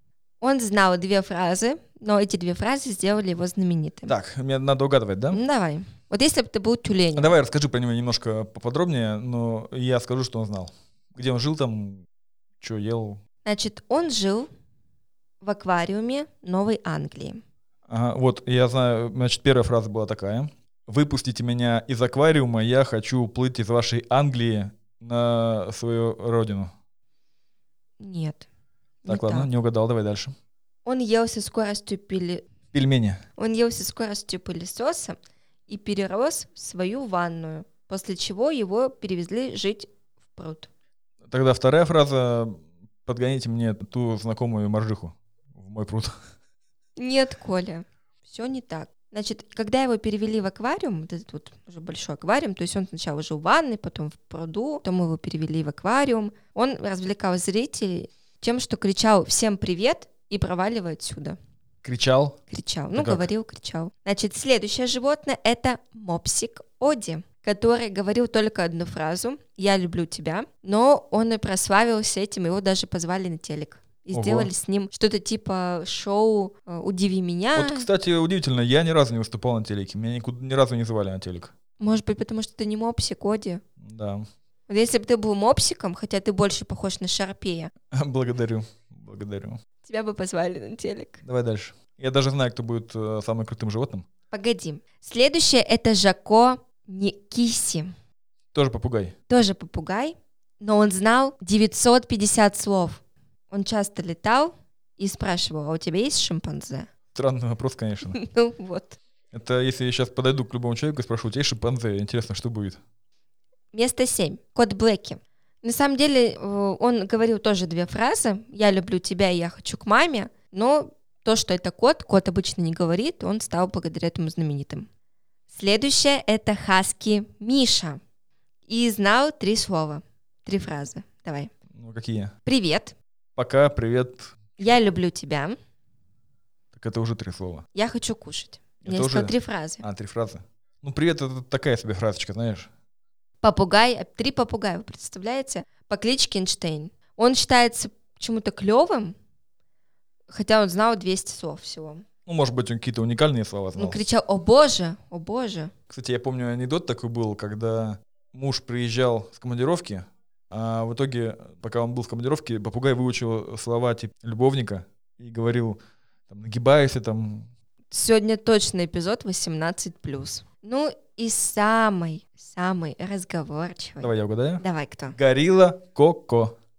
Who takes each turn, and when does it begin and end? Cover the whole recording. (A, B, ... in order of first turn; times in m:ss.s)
0:00.4-0:04.1 A
0:04.0-0:05.4 B
0:05.3-0:07.3 A
0:07.1-0:12.0 B
0:12.6-0:13.2 B
0:13.4-0:14.5 A
0:15.4-0:17.4 A
0:17.9-0:26.7 B
0:28.0-0:28.5 A
0:29.0-0:29.5 A
0:29.1-0:30.3 B
0:30.8-0:32.4 A
0:32.7-0:33.2 B
0:33.4-0:35.2 A
0:35.7-0:40.7 A
0:41.3-0:46.1 B
0:47.0-1:01.4 A
1:01.8-1:02.4 B
1:02.5-1:17.9 A
1:02.9-1:03.3 B
1:14.1-1:14.5 B
1:17.5-1:21.5 B
1:21.8-1:23.6 A
1:23.8-1:24.2 B
1:24.7-1:27.7 A
1:27.9-1:29.6 B
1:29.8-1:31.2 A
1:31.2-1:34.0 B
1:34.3-1:37.9 A
1:38.5-1:39.1 B
1:39.3-1:46.9 A
1:47.1-1:48.2 B
1:48.1-1:49.0 A
1:49.3-1:52.8 B
1:53.7-2:04.9 A
2:05.5-2:08.0 A
2:08.7-2:11.5 A
2:11.7-2:12.3 B
2:12.4-2:12.9 A
2:13.4-2:14.3 B
2:14.6-2:15.6 A
2:16.7-2:17.6 B
2:17.7-2:19.8 A
2:18.8-2:22.7 B
2:23.4-2:29.1 A
2:30.3-2:32.0 A
2:32.2-2:34.0 B
2:33.8-2:35.7 A
2:35.9-2:47.5 B
2:47.9-2:55.2 A
2:54.0-2:54.6 B
2:55.1-2:56.6 B